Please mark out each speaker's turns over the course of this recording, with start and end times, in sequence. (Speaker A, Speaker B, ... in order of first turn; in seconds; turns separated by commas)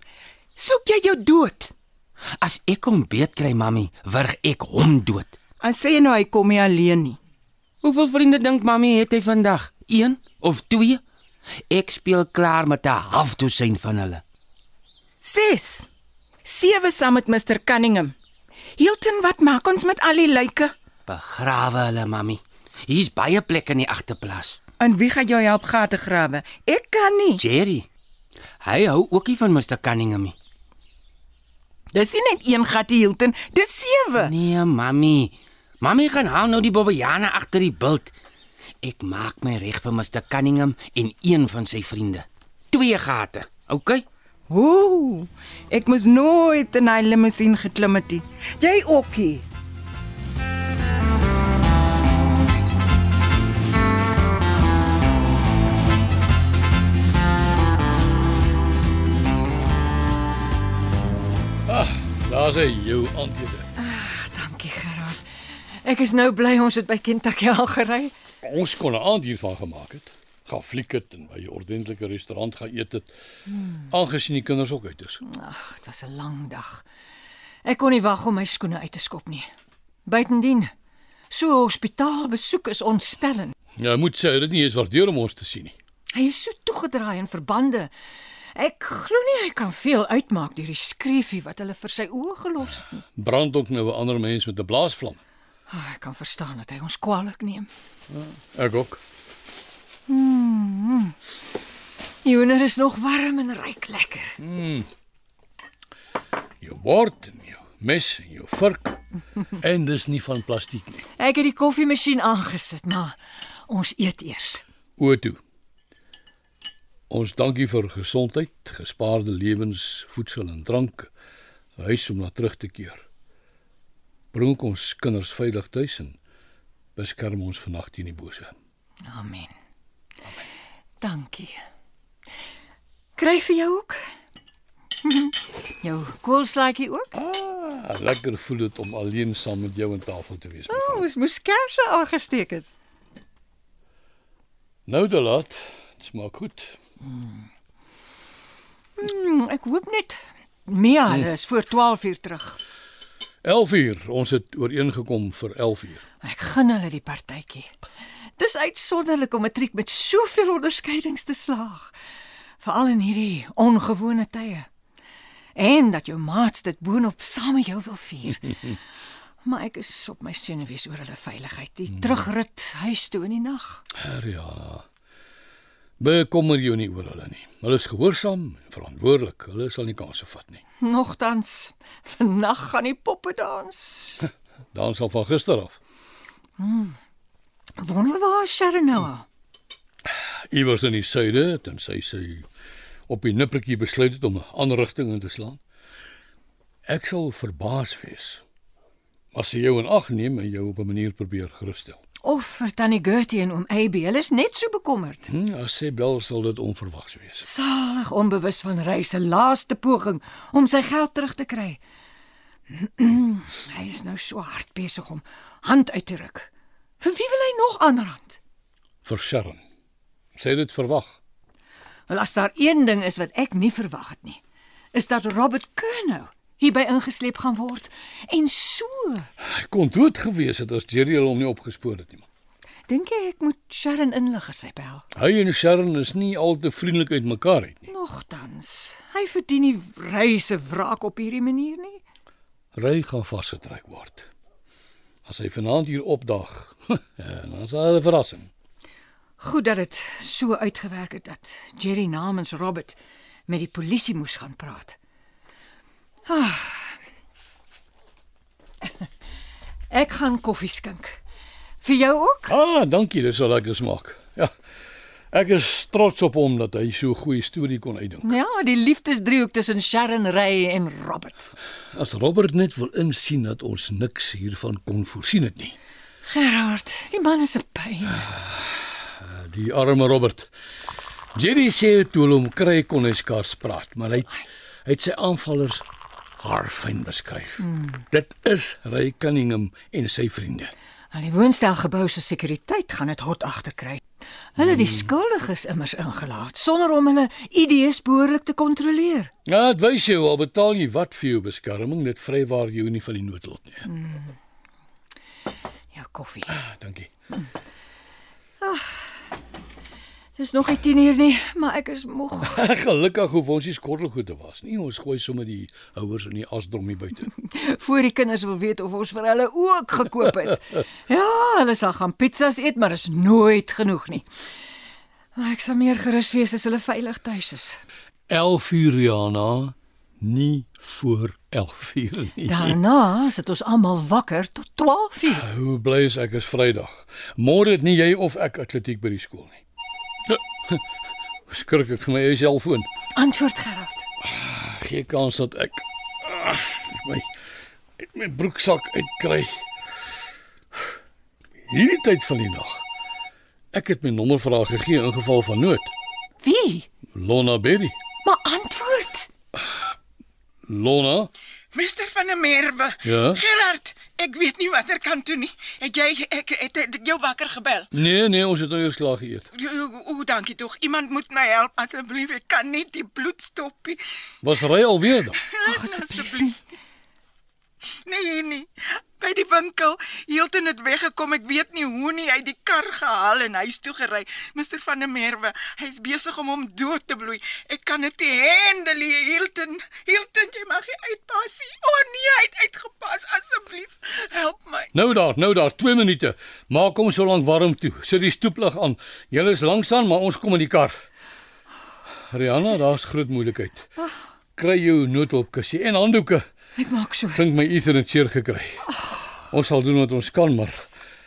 Speaker A: 0.6-1.7, Speaker B: 2.4-5.4, Speaker A: 5.6-7.2, Speaker B: 7.8-11.0, Speaker B: 11.7-14.2, Speaker A: 15.2-15.9, Speaker A: 16.4-18.1, Speaker A: 18.8-20.7, Speaker B: 21.1-24.6, Speaker A: 24.8-27.4, Speaker B: 27.4-27.9, Speaker B: 28.6-30.3, Speaker A: 31.9-34.3, Speaker B: 34.1-38.1, Speaker B: 38.8-44.0, Speaker A: 44.5-49.5, Speaker C: 61.7-63.7, Speaker D: 63.8-65.2, Speaker D: 65.8-68.1, Speaker C: 68.4-73.1, Speaker C: 73.9-75.2, Speaker D: 75.2-76.8, Speaker D: 77.6-79.5, Speaker D: 80.0-80.7, Speaker D: 81.3-83.5, Speaker C: 83.8-85.7, Speaker D: 86.1-87.9, Speaker D: 88.5-93.0, Speaker C: 93.2-95.2, Speaker D: 95.7-97.7, Speaker C: 98.1-99.0, Speaker D: 100.1-101.2, Speaker D: 102.2-104.4, Speaker C: 104.4-104.9, Speaker C: 106.6-109.0, Speaker C: 109.6-111.0, Speaker D: 111.2-113.2, Speaker D: 113.7-114.6, Speaker C: 115.0-115.4, Speaker C: 117.1-121.1, Speaker C: 121.8-123.0, Speaker C: 124.3-126.2, Speaker C: 127.0-128.5, Speaker D: 129.0-129.5, Speaker D: 131.0-131.6, Speaker D: 133.2-134.0, Speaker D: 135.0-137.1, Speaker C: 137.1-141.1, Speaker D: 140.7-142.7, Speaker C: 144.9-146.8, Speaker D: 147.1-147.3, Speaker D: 149.0-152.6, Speaker C: 153.4-156.0, Speaker D: 156.2-157.7, Speaker D: 158.4-161.9, Speaker D: 162.6-164.7, Speaker D: 165.6-168.8, Speaker D: 169.4-173.8, Speaker C: 173.9-174.8, Speaker C: 176.0-180.6, Speaker D: 180.8-184.2, Speaker C: 184.7-185.8, Speaker D: 186.6-187.0, Speaker D: 187.8-189.2, Speaker C: 190.5-192.4, Speaker C: 193.1-195.6, Speaker C: 196.8-198.4, Speaker C: 199.3-202.0, Speaker D: 202.2-205.3, Speaker C: 205.3-207.4, Speaker D: 207.4-211.8, Speaker D: 212.7-216.5, Speaker D: 217.0-218.4, Speaker C: 219.0-219.6, Speaker C: 220.3-221.2, Speaker D: 222.1-224.4, Speaker D: 224.9-229.3, Speaker C: 229.4-232.2, Speaker D: 232.9-235.0, Speaker C: 235.1-237.9, Speaker D: 237.9-242.0, Speaker C: 242.7-244.3, Speaker C: 245.2-248.5, Speaker D: 249.4-255.0, Speaker D: 256.3-257.0, Speaker D: 259.9-261.2, Speaker D: 261.8-262.6, Speaker C: 262.5-264.5, Speaker C: 265.3-268.3, Speaker D: 268.2-271.5, Speaker C: 271.9-275.8, Speaker D: 276.2-278.2, Speaker C: 278.2-280.5, Speaker C: 281.3-285.8, Speaker C: 286.4-290.7, Speaker D: 291.1-294.0, Speaker D: 294.5-299.3, Speaker C: 294.6-295.0, Speaker C: 299.5-303.9, Speaker D: 303.9-304.3, Speaker D: 305.9-306.5, Speaker C: 306.5-307.1, Speaker D: 308.6-309.1, Speaker D: 310.4-312.6, Speaker C: 312.5-317.3, Speaker D: 317.4-324.2, Speaker D: 325.4-327.8, Speaker C: 328.3-332.8, Speaker D: 332.4-335.5, Speaker C: 335.3-339.6, Speaker C: 340.3-340.8, Speaker C: 341.5-342.9, Speaker D: 343.1-344.0, Speaker C: 344.2-347.3, Speaker C: 348.0-349.6, Speaker C: 351.7-352.8, Speaker C: 353.7-355.9, Speaker D: 356.4-356.9, Speaker C: 357.1-357.9, Speaker D: 358.2-359.3, Speaker C: 360.7-361.3, Speaker A: 361.7-367.9, Speaker C: 363.0-363.4, Speaker C: 367.9-369.5, Speaker A: 369.5-374.0, Speaker C: 374.4-375.4, Speaker A: 375.3-376.5, Speaker D: 375.7-376.5, Speaker A: 378.1-394.9, Speaker C: 394.9-400.9, Speaker C: 402.3-403.9, Speaker C: 404.6-406.4, Speaker D: 406.8-407.4, Speaker C: 407.3-408.9, Speaker C: 409.5-410.9